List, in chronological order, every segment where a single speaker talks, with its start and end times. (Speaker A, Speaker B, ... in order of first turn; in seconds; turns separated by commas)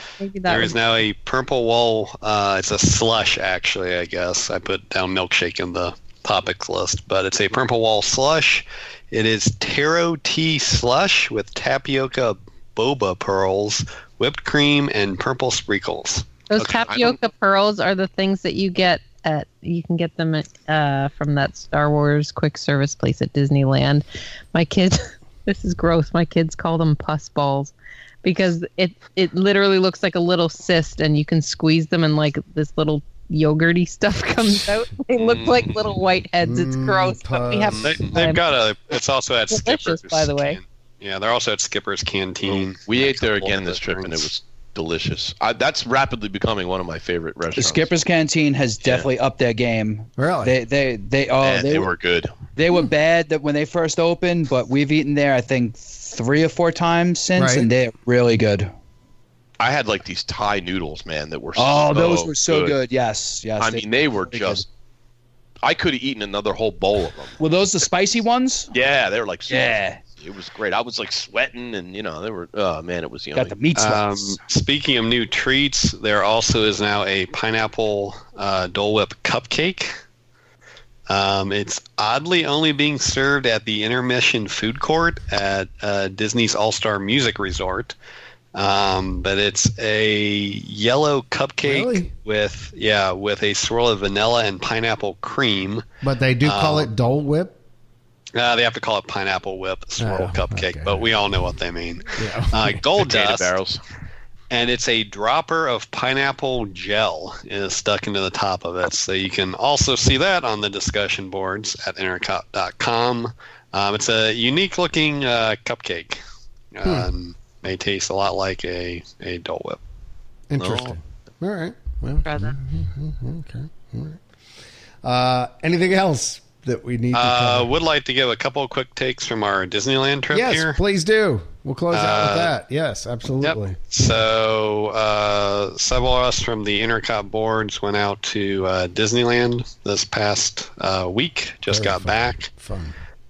Speaker A: 0.2-0.8, Speaker B: 0.5-16.8, Speaker A: 16.5-38.4, Speaker C: 16.7-17.2, Speaker C: 35.2-35.9, Speaker D: 36.4-37.9, Speaker C: 37.8-38.1, Speaker B: 37.8-44.3, Speaker A: 39.5-40.6, Speaker C: 42.5-47.9, Speaker E: 47.6-51.9, Speaker C: 48.8-49.1, Speaker D: 50.2-50.6, Speaker C: 51.4-52.3, Speaker E: 52.6-58.7, Speaker D: 57.4-57.7, Speaker C: 59.6-62.8, Speaker E: 61.6-64.6, Speaker C: 63.6-64.7, Speaker C: 65.6-67.4, Speaker E: 67.4-68.7, Speaker C: 68.7-73.5, Speaker E: 69.5-70.0, Speaker E: 73.3-74.4, Speaker B: 73.7-80.0, Speaker B: 81.1-88.0, Speaker B: 88.5-95.9, Speaker D: 91.6-92.1, Speaker D: 96.0-97.6, Speaker B: 96.4-96.9, Speaker B: 98.3-103.5, Speaker D: 100.0-101.1, Speaker D: 102.2-102.8, Speaker C: 103.0-103.8, Speaker B: 104.5-116.2, Speaker B: 116.7-119.8, Speaker D: 120.5-124.2, Speaker C: 120.6-121.0, Speaker A: 122.2-122.6, Speaker D: 125.0-127.7, Speaker B: 127.1-130.8, Speaker D: 130.3-133.8, Speaker B: 131.9-132.5, Speaker B: 133.4-142.5, Speaker D: 141.7-143.0